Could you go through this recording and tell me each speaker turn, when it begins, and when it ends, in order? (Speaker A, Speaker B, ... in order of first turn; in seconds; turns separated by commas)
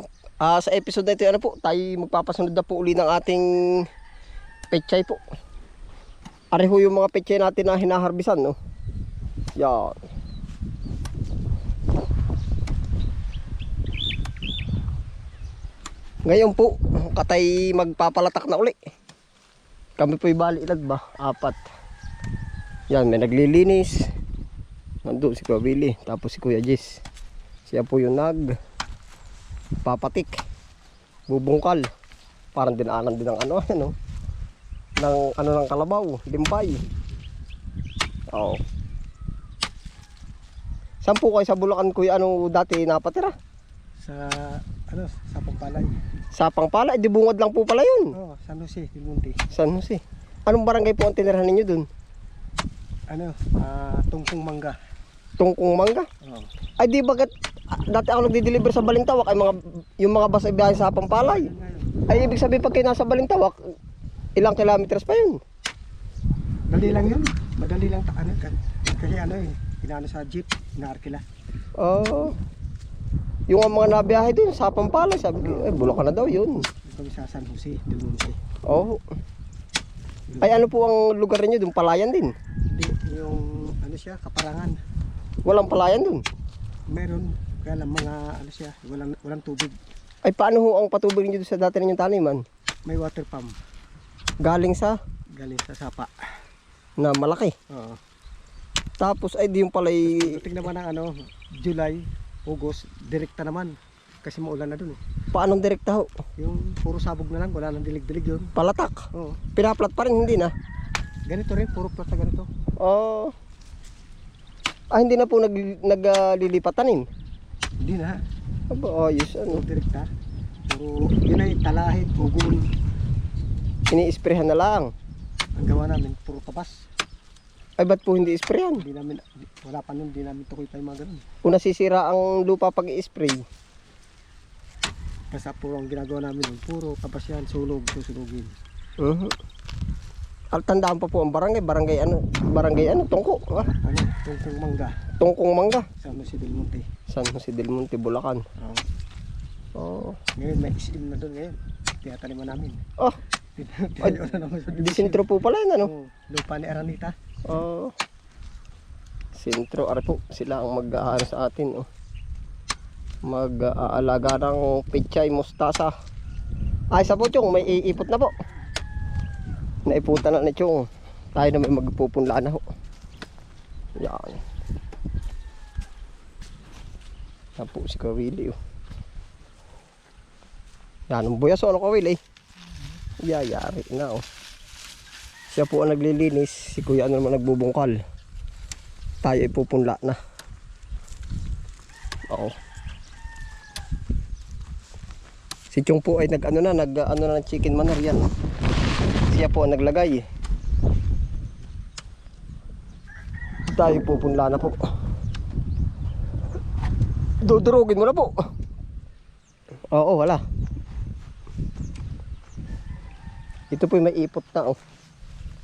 Speaker A: 0.4-3.8, Speaker A: 4.7-5.2, Speaker A: 6.5-8.6, Speaker A: 9.6-10.0, Speaker A: 16.3-18.8, Speaker A: 20.0-21.6, Speaker A: 22.9-24.0, Speaker A: 25.0-27.0, Speaker A: 27.7-28.5, Speaker A: 29.8-30.3, Speaker A: 31.3-31.9, Speaker A: 32.5-33.9, Speaker A: 35.0-36.8, Speaker A: 38.3-38.6, Speaker A: 41.0-43.3, Speaker B: 44.0-45.9, Speaker A: 46.3-48.1, Speaker B: 48.1-49.4, Speaker A: 49.5-51.9, Speaker B: 53.1-54.8, Speaker A: 55.4-56.1, Speaker A: 56.8-61.5, Speaker B: 61.1-61.9, Speaker A: 62.1-63.6, Speaker A: 64.4-65.4, Speaker B: 66.7-71.2, Speaker A: 71.8-72.3, Speaker A: 73.5-76.7, Speaker B: 75.4-75.7, Speaker B: 76.9-78.4, Speaker A: 78.7-79.0, Speaker B: 80.3-80.6, Speaker A: 80.4-82.3, Speaker B: 82.7-84.8, Speaker A: 85.5-86.2, Speaker B: 86.9-89.8, Speaker A: 90.2-92.4, Speaker B: 92.9-93.5, Speaker A: 94.5-95.0, Speaker B: 95.4-96.1, Speaker A: 97.0-97.5, Speaker B: 97.7-98.0, Speaker A: 99.0-100.4, Speaker B: 100.1-105.0, Speaker A: 105.3-106.1, Speaker B: 106.4-108.5, Speaker A: 108.5-109.0, Speaker B: 109.1-109.4, Speaker A: 109.5-110.5, Speaker B: 111.3-112.5, Speaker A: 112.8-113.3, Speaker A: 114.9-117.0, Speaker B: 117.8-118.2, Speaker A: 118.7-119.6, Speaker B: 119.5-120.1, Speaker B: 120.7-122.6, Speaker A: 123.9-124.9, Speaker B: 125.6-126.8, Speaker A: 127.8-128.8, Speaker B: 128.8-131.2, Speaker A: 131.4-133.4, Speaker B: 135.3-138.5, Speaker A: 139.0-139.3, Speaker A: 140.5-143.7, Speaker B: 143.6-144.9, Speaker A: 145.2-145.9, Speaker B: 146.0-146.8, Speaker A: 147.1-148.4, Speaker A: 149.8-150.2, Speaker B: 150.4-152.8, Speaker B: 153.6-155.2, Speaker A: 154.8-155.9, Speaker B: 155.8-157.1, Speaker A: 157.5-157.9, Speaker A: 159.3-161.9, Speaker A: 163.3-165.9, Speaker A: 166.9-168.3, Speaker A: 169.9-172.6, Speaker A: 174.0-174.4, Speaker A: 177.6-178.6, Speaker A: 181.1-182.2, Speaker A: 183.2-184.2, Speaker A: 185.5-188.0, Speaker A: 189.2-190.2, Speaker A: 195.7-198.3, Speaker A: 199.3-200.2, Speaker A: 203.7-204.8, Speaker A: 207.4-208.3, Speaker A: 209.9-210.4, Speaker A: 213.7-214.8